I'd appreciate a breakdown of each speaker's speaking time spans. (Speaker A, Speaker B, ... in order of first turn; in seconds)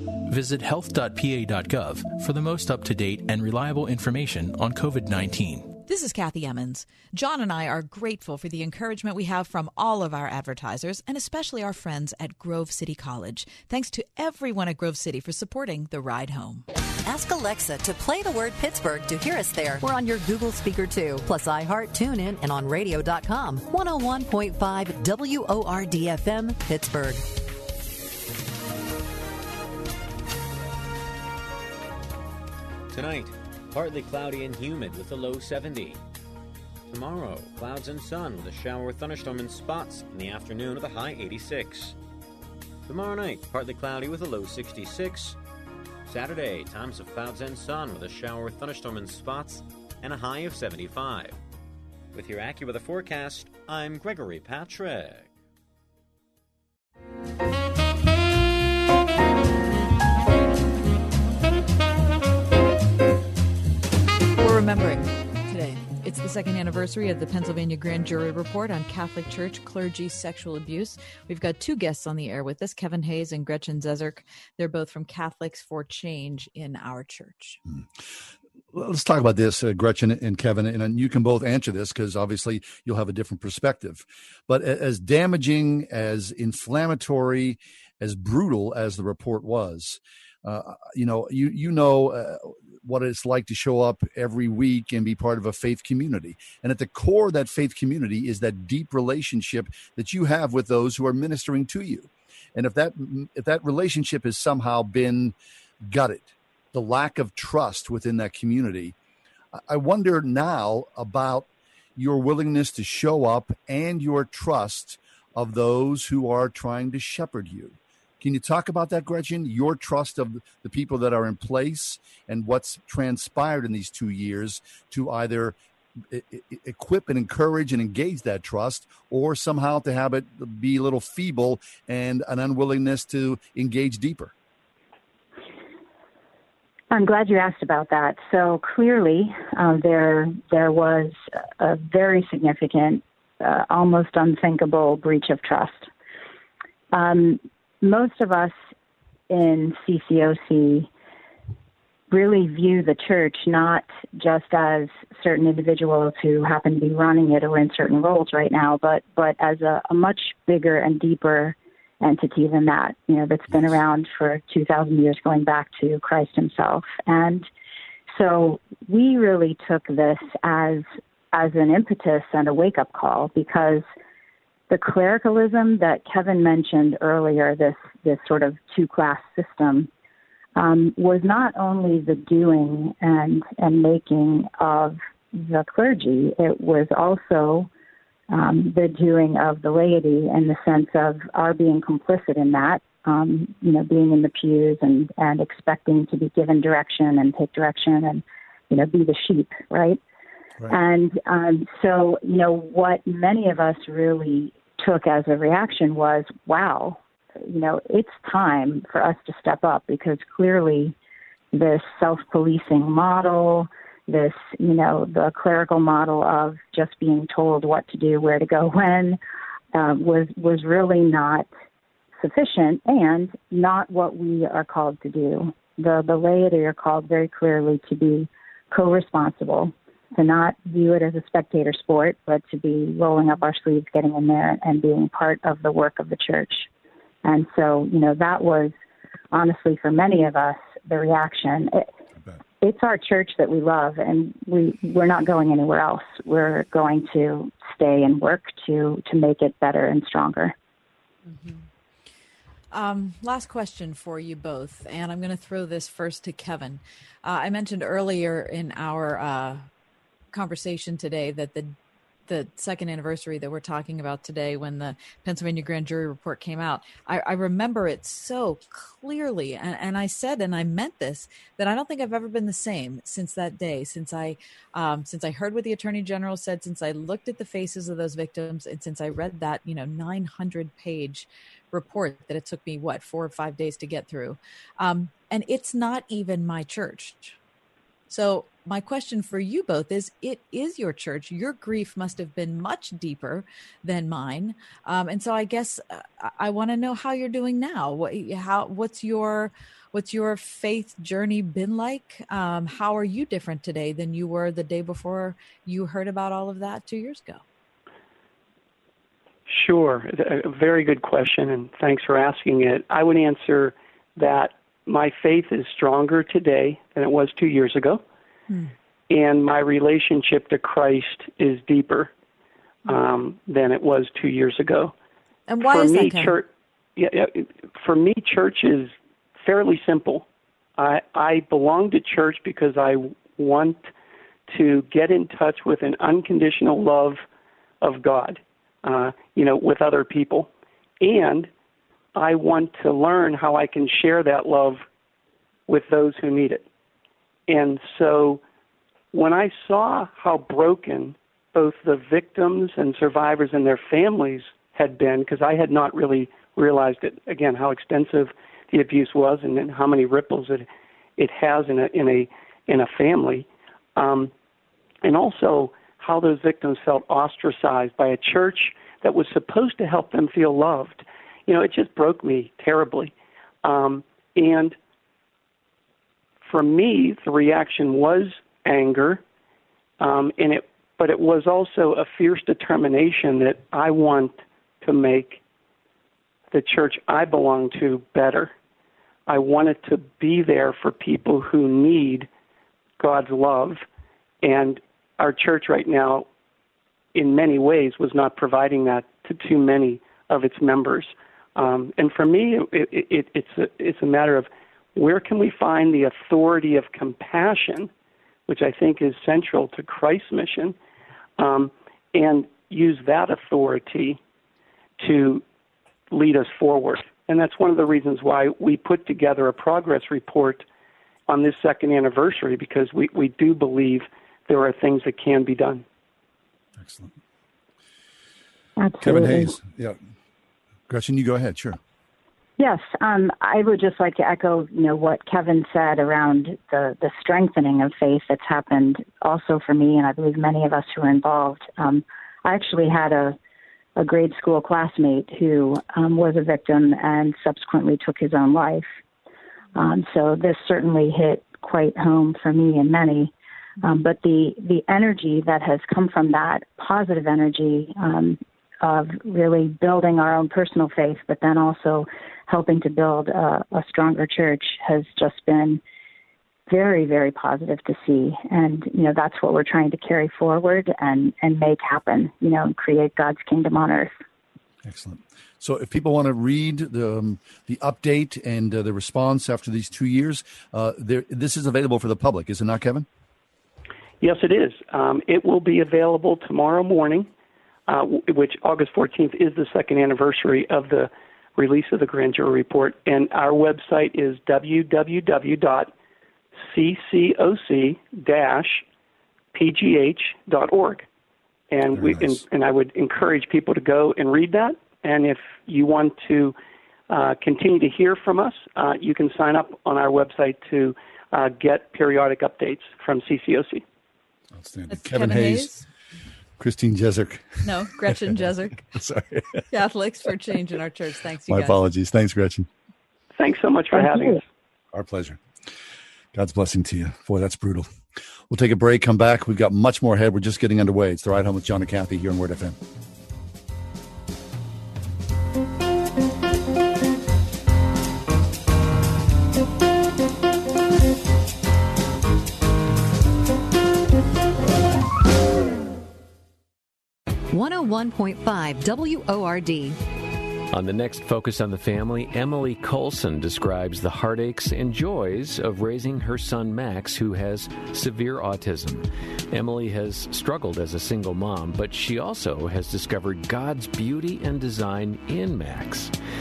Speaker A: 0.3-5.7
Speaker B: 5.9-16.6, 64.4-77.6, 251.2-251.6, 252.7-259.7, 260.3-261.8, 262.3-287.4, 288.1-307.4, 325.5-326.4, 514.9-515.8, 517.6-518.9, 519.7-521.8
Speaker C: 17.0-27.2, 547.5-550.0
Speaker D: 32.9-36.0, 36.9-42.0, 42.9-45.4, 46.0-51.4, 52.1-55.3
Speaker E: 77.7-78.2, 78.7-108.9, 109.5-125.5, 126.1-134.3, 426.8-427.1, 429.0-430.0, 430.9-431.8, 474.8-483.1, 501.9-502.4, 514.5-515.7, 516.6-517.6, 518.9-519.6, 521.5-522.7, 524.9-525.4, 526.3-527.9, 528.5-532.8
Speaker F: 136.9-145.9, 146.9-148.6, 149.3-150.9, 152.1-167.5, 168.1-173.8, 174.7-179.9, 180.6-187.7, 188.3-200.0, 200.7-210.9, 211.5-219.2, 219.7-221.5, 222.2-236.7, 237.2-238.7, 239.3-241.8, 242.6-250.5, 428.8-429.6, 432.6-443.4, 444.0-448.9, 449.8-453.3, 453.8-465.8, 466.7-474.1, 523.9-524.4
Speaker G: 309.5-318.0, 319.1-322.1, 322.9-324.9, 325.6-330.2, 330.8-333.8, 334.5-337.2, 337.8-340.5, 341.0-341.5, 342.1-344.8, 345.7-346.6, 347.5-348.4, 349.1-360.7, 361.2-364.3, 365.0-373.1, 373.6-374.8, 376.4-379.2, 380.0-385.4, 386.5-388.5, 389.3-392.3, 393.0-393.8, 394.4-396.3, 397.1-407.9, 408.5-410.7, 411.4-414.2, 415.0-415.4, 416.1-420.6, 421.3-425.8, 484.2-487.3, 487.9-495.9, 496.6-498.8, 499.5-501.1, 501.7-506.6, 507.1-513.8, 523.4-524.4
Speaker H: 550.7-566.1